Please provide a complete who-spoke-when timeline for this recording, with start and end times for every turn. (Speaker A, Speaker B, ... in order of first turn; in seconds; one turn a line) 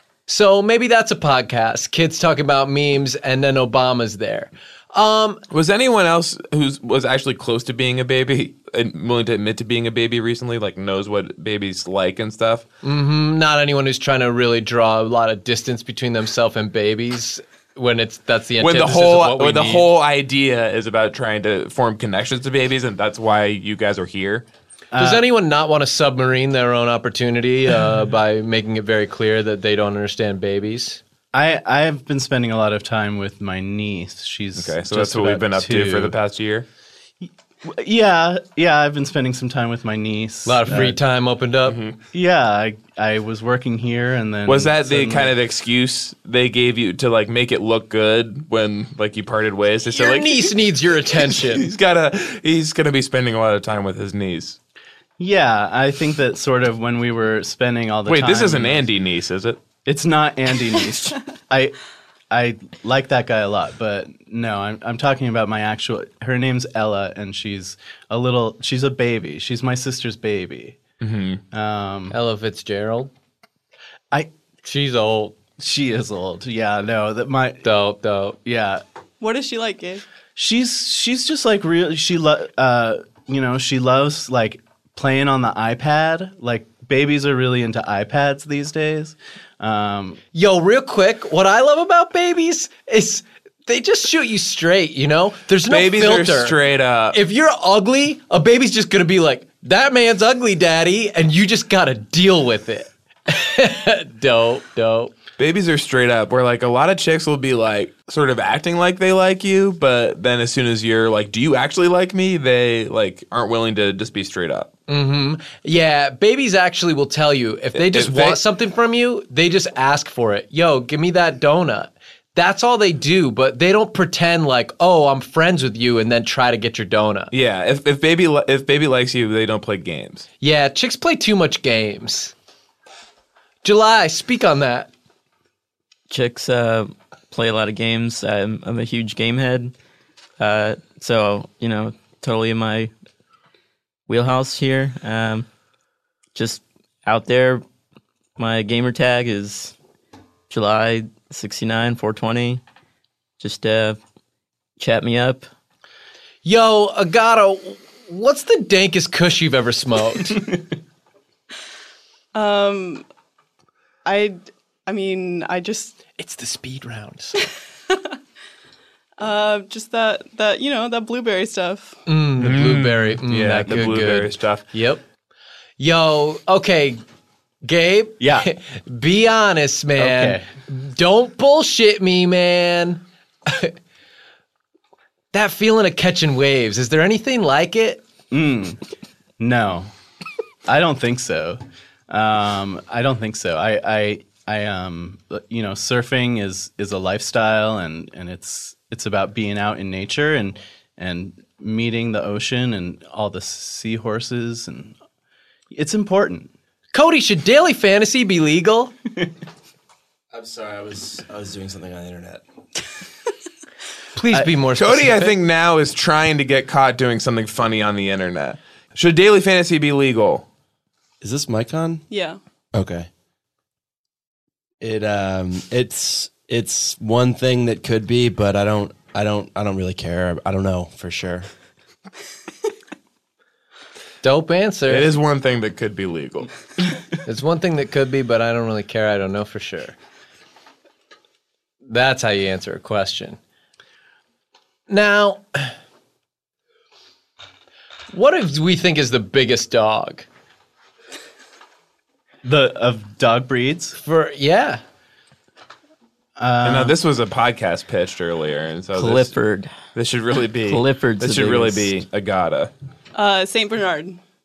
Speaker A: 0.3-5.4
Speaker B: 5.5-12.6
Speaker A: 12.8-19.9
Speaker B: 18.6-24.4
Speaker C: 24.9-25.2
Speaker A: 25.0-31.0
Speaker C: 31.3-36.1
Speaker B: 34.5-36.6
Speaker C: 37.2-41.0
Speaker A: 40.5-41.8
Speaker B: 41.6-42.0
Speaker C: 42.1-45.3
Speaker B: 44.5-50.5
Speaker A: 49.9-51.7
Speaker B: 51.1-54.6
Speaker C: 55.2-58.9
Speaker B: 58.0-59.6
Speaker C: 59.8-61.8
Speaker C: 62.3-70.8
Speaker B: 71.0-71.4
Speaker C: 71.5-72.2
Speaker A: 72.1-73.1
Speaker A: 74.6-75.3
Speaker C: 75.6-77.6
Speaker A: 77.6-78.4
Speaker C: 78.4-78.8
Speaker D: 79.2-80.0
Speaker C: 80.3-90.2
Speaker A: 90.3-96.6
Speaker B: 95.7-97.2
Speaker A: 97.1-105.1
Speaker B: 105.4-114.7
Speaker A: 114.9-127.3
Speaker B: 117.7-118.4
Speaker B: 127.3-130.2
Speaker A: 130.4-132.3
Speaker A: 133.6-134.9
Speaker E: 136.1-139.7
Speaker E: 140.4-142.9
Speaker E: 144.1-145.4
Speaker E: 146.3-147.6
Speaker E: 148.4-149.7
Speaker E: 150.5-152.6
Speaker E: 153.4-154.0
Speaker E: 154.8-155.4
Speaker A: 156.4-160.5
Speaker D: 162.3-163.0
Speaker D: 164.0-166.0
Speaker A: 166.2-167.4
Speaker D: 167.4-168.1
Speaker D: 169.2-172.0
Speaker A: 172.1-175.0
Speaker B: 172.4-174.6
Speaker A: 175.8-177.0
Speaker A: 177.6-183.8
Speaker C: 178.2-178.5
Speaker C: 180.0-180.5
Speaker A: 185.3-188.0
Speaker C: 188.3-188.8
Speaker C: 189.4-189.9
Speaker C: 190.7-204.9
Speaker C: 205.7-206.5
Speaker A: 206.9-208.9
Speaker F: 210.3-212.4
Speaker A: 214.2-215.3
Speaker B: 214.8-220.5
Speaker F: 221.2-222.0
Speaker D: 222.1-222.4
Speaker F: 222.7-223.1
Speaker F: 224.8-231.5
Speaker A: 234.2-235.1
Speaker B: 234.9-236.5
Speaker A: 237.2-239.9
Speaker A: 241.8-243.4
Speaker A: 244.9-245.7
Speaker A: 248.1-250.2
Speaker C: 252.4-254.0
Speaker A: 254.0-254.8
Speaker C: 256.4-256.9
Speaker B: 256.6-259.3
Speaker E: 258.9-259.7
Speaker B: 259.9-262.7
Speaker E: 260.7-261.9
Speaker D: 263.1-264.2